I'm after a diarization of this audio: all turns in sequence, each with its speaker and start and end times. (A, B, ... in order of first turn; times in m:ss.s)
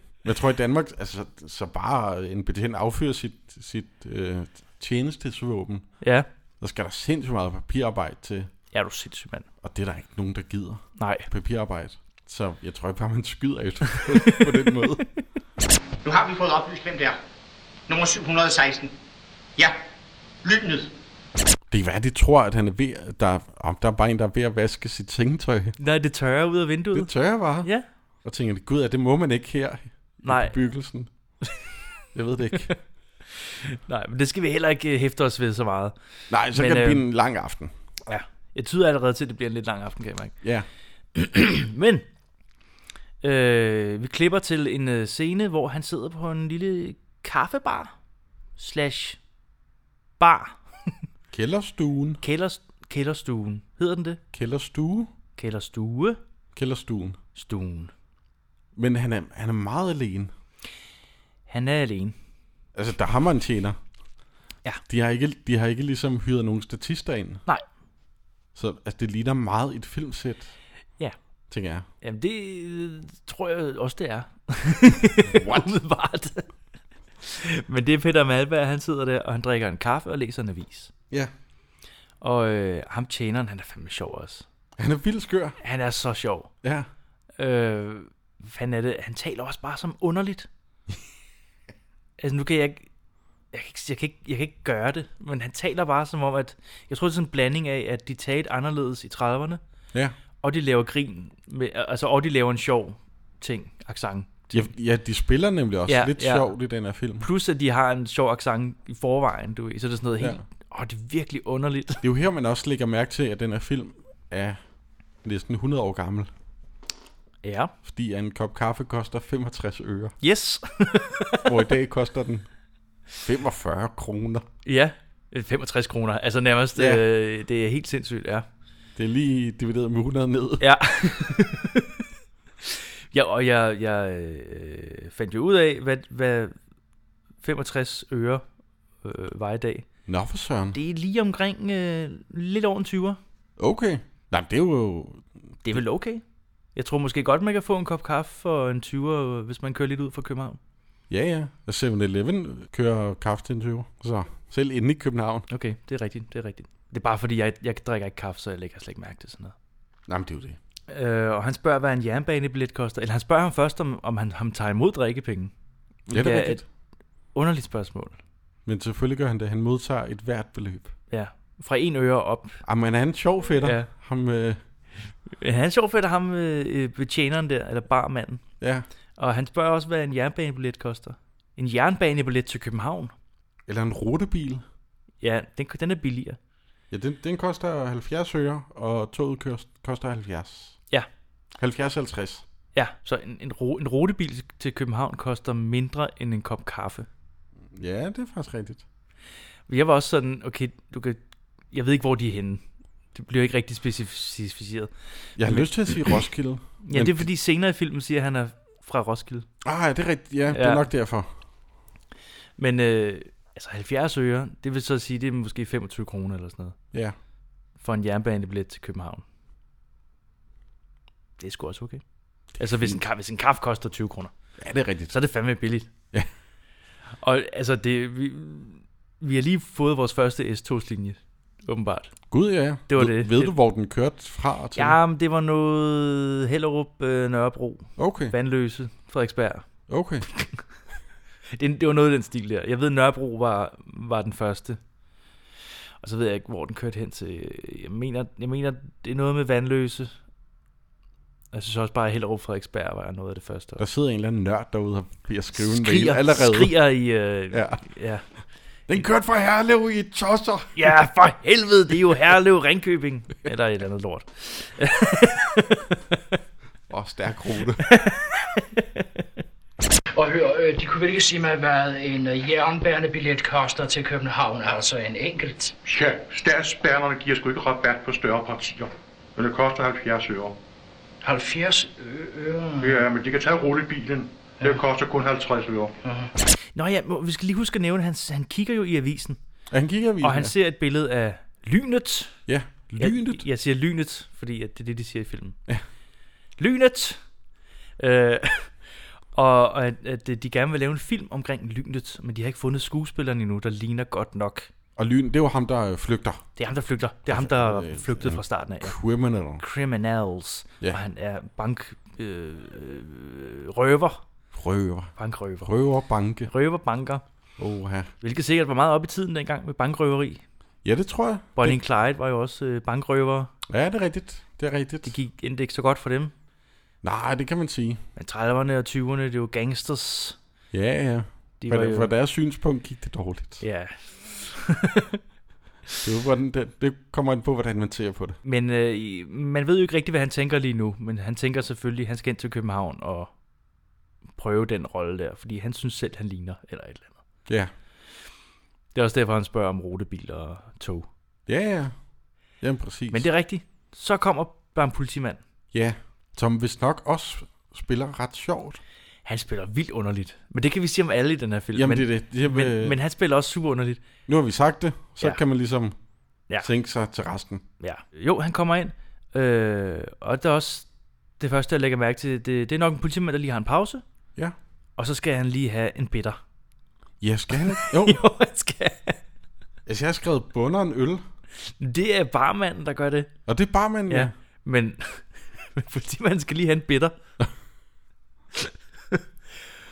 0:00.2-0:05.9 A
0:06.6-0:08.5 A
0:08.7-0:09.5 B
0:09.6-0:15.0 A
0:11.0-0:11.3 B
0:14.0-0:14.8 B
0:16.0-0:17.2 C
0:17.9-0:18.9 C
0:20.4-0:20.9 C
0:21.7-0:25.8 A
0:25.8-0:27.1 B
0:26.9-0:27.7 A
0:28.2-0:31.1 A
0:30.2-0:30.6 B
0:32.1-0:32.7 A
0:33.3-0:36.0 B
0:36.3-0:37.7 A
0:36.5-0:37.0 B
0:38.1-0:40.3 B
0:41.2-0:42.0 B
0:43.2-0:47.9 B
0:48.6-0:49.2 B
0:50.2-0:50.6 B
0:51.3-0:52.2 A
0:52.2-0:54.2 B
0:54.3-0:55.1 A
0:55.4-0:56.2 B
0:56.6-0:57.2 A
0:57.4-0:57.9 B
0:58.8-1:00.3 A
1:01.5-1:02.2 B
1:02.8-1:03.8 A
1:04.9-1:07.4 A
1:08.6-1:10.5 A
1:11.5-1:11.9 A
1:12.0-1:16.5 B
1:15.2-1:15.7 A
1:17.2-1:20.9 B
1:22.2-1:24.4 B
1:24.8-1:25.6 A
1:25.6-1:26.5 B
1:26.6-1:26.9 A
1:27.4-1:30.5 B
1:32.2-1:32.9 B
1:33.5-1:39.6 B
1:40.4-1:44.7 B
1:44.5-1:47.3 A
1:45.9-1:46.5 B
1:47.2-1:52.0 B
1:52.0-1:54.6 A
1:55.2-1:56.3 A
1:57.4-1:57.7 B
1:57.8-2:00.2 A
2:00.2-2:01.6 B
2:01.4-2:02.5 A
2:03.2-2:04.4 A
2:04.6-2:08.5 B
2:06.8-2:07.0 A
2:09.0-2:10.6 A
2:10.6-2:12.0 B
2:12.6-2:16.6 B
2:17.4-2:18.4 B
2:19.0-2:19.9 B
2:20.1-2:20.8 A
2:20.7-2:23.2 B
2:23.6-2:25.8 A
2:25.6-2:26.2 B
2:26.8-2:30.6 B
2:31.1-2:35.5 A
2:35.5-2:39.5 B
2:40.1-2:40.6 A
2:40.9-2:45.5 B
2:46.1-2:46.6 A
2:46.1-2:46.6 B
2:47.3-2:48.2 B
2:48.7-2:50.9 A
2:51.1-2:52.6 B
2:52.6-2:54.6 A
2:53.6-2:53.9 B
2:55.4-2:58.4 B
2:59.2-3:03.1 B
3:03.7-3:04.6 A
3:05.2-3:06.4 B
3:06.9-3:10.8 A
3:11.6-3:12.4 A
3:12.8-3:17.1 B
3:17.7-3:18.8 A
3:19.7-3:21.2 B
3:21.7-3:22.6 B
3:23.1-3:26.2 B
3:25.4-3:27.2 A
3:26.8-3:29.5 B
3:29.6-3:31.3 A
3:30.5-3:30.9 B
3:32.6-3:36.8 B
3:37.8-3:39.2 B
3:41.4-3:42.0 B
3:42.6-3:44.3 B
3:42.6-3:43.0 A
3:44.6-3:45.2 A
3:45.1-3:45.9 B
3:47.2-3:52.1 B
3:52.3-3:55.0 A
3:52.9-3:53.5 B
3:54.8-3:59.6 B
3:58.0-3:58.3 A
3:59.9-4:00.2 A
4:01.6-4:04.8 B
4:06.0-4:10.1 B
4:11.5-4:13.8 B
4:13.8-4:16.8 A
4:15.5-4:18.2 B
4:17.5-4:17.9 A
4:18.9-4:20.9 A
4:20.8-4:26.0 B
4:26.9-4:27.8 A
4:27.8-4:29.1 B
4:30.1-4:35.8 D
4:35.9-4:40.6 E
4:41.2-4:43.1 D
4:42.8-4:46.0 E
4:46.0-4:46.3 D
4:46.8-4:49.4 B
4:49.7-4:50.5 A
4:50.2-4:52.4 B
4:52.5-4:53.4 A
4:53.0-4:55.6 B
4:56.6-4:57.2 B
4:58.0-4:58.7 B
4:59.4-5:04.7 B
5:05.0-5:06.4 A
5:06.6-5:09.0 B
5:07.3-5:09.6 A
5:09.6-5:14.2 B
5:14.5-5:16.5 A
5:15.2-5:15.7 B
5:16.5-5:17.2 B
5:17.6-5:18.1 A
5:18.2-5:20.4 B
5:20.8-5:21.8 A
5:21.6-5:23.5 B
5:23.7-5:25.1 A
5:25.0-5:26.3 B
5:27.0-5:28.0 A
5:28.2-5:30.4 B
5:30.7-5:33.6 A
5:31.6-5:32.1 B
5:33.6-5:35.2 B
5:36.0-5:38.4 A
5:38.4-5:43.3 B
5:44.4-5:47.2 B
5:48.9-5:51.1 B
5:51.5-5:51.9 A
5:52.6-5:53.3 A
5:53.1-5:55.4 B
5:55.7-5:58.8 A
5:59.2-6:04.0 B
6:01.8-6:03.0 A
6:04.3-6:06.0 A
6:06.6-6:07.6 A
6:07.8-6:10.9 B
6:11.4-6:14.0 B
6:15.0-6:16.4 B
6:17.2-6:18.2 A
6:17.5-6:19.2 B
6:19.9-6:21.2 A
6:21.8-6:23.3 B
6:23.5-6:24.3 A
6:24.1-6:27.2 B
6:28.6-6:29.2 B